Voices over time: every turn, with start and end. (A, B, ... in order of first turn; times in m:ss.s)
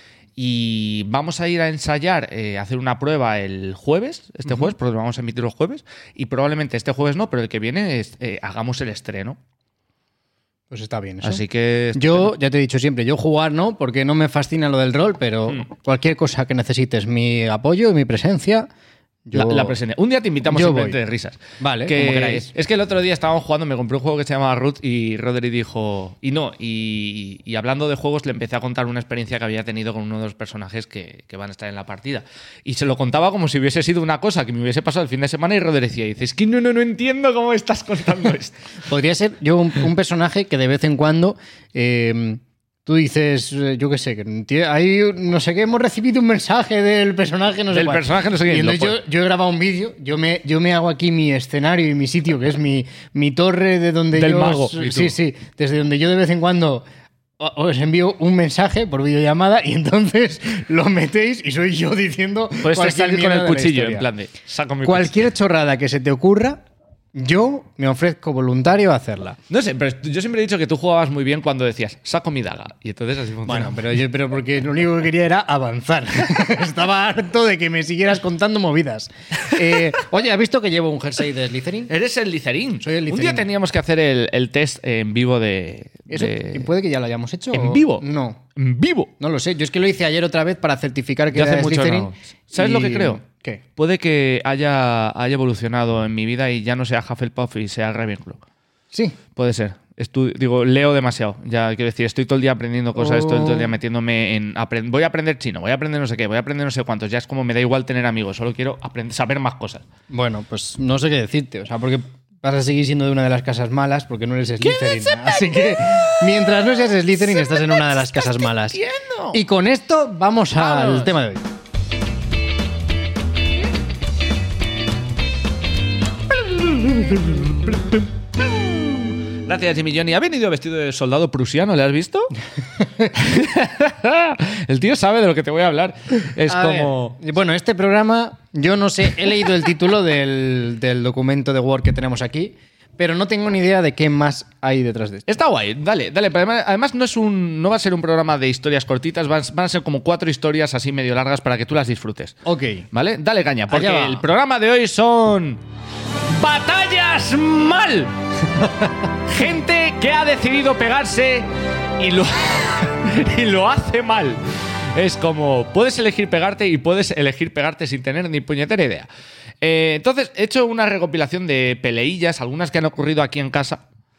0:00.4-0:09.4 A
0:10.7-0:11.4 B
0:11.2-0:12.3 A
0:11.9-0:18.7 B
0:19.3-0:19.8 B
0:19.3-0:38.6 A
0:20.5-0:21.0 B
0:21.6-0:22.5 B
0:38.9-0:56.8 B
0:47.7-0:49.0 A
0:54.1-0:55.2 A
0:57.4-1:04.1 B
1:02.6-1:05.1 A
1:04.8-1:06.6 B
1:07.1-1:09.4 B
1:09.5-1:13.8 A
1:13.4-1:21.9 B
1:21.9-1:26.7 A
1:22.8-1:23.5 B
1:26.1-1:28.4 B
1:27.5-1:28.0 A
1:28.5-1:29.1 A
1:29.2-1:33.6 B
1:31.3-1:33.2 A
1:33.8-1:38.4 A
1:39.3-1:49.8 A
1:43.0-1:43.7 B
1:50.1-1:58.8 B
1:54.6-1:56.5 A
1:57.2-1:59.4 A
1:59.3-2:01.4 B
2:00.6-2:01.2 A
2:06.3-2:12.3 A
2:12.8-2:13.1 B
2:13.1-2:17.2 A
2:16.5-2:25.3 B
2:25.3-2:32.4 A
2:32.4-2:32.9 B
2:32.9-2:35.6 A
2:33.7-2:34.2 B
2:36.3-2:38.1 A
2:39.2-2:49.1 A
2:49.6-2:53.8 A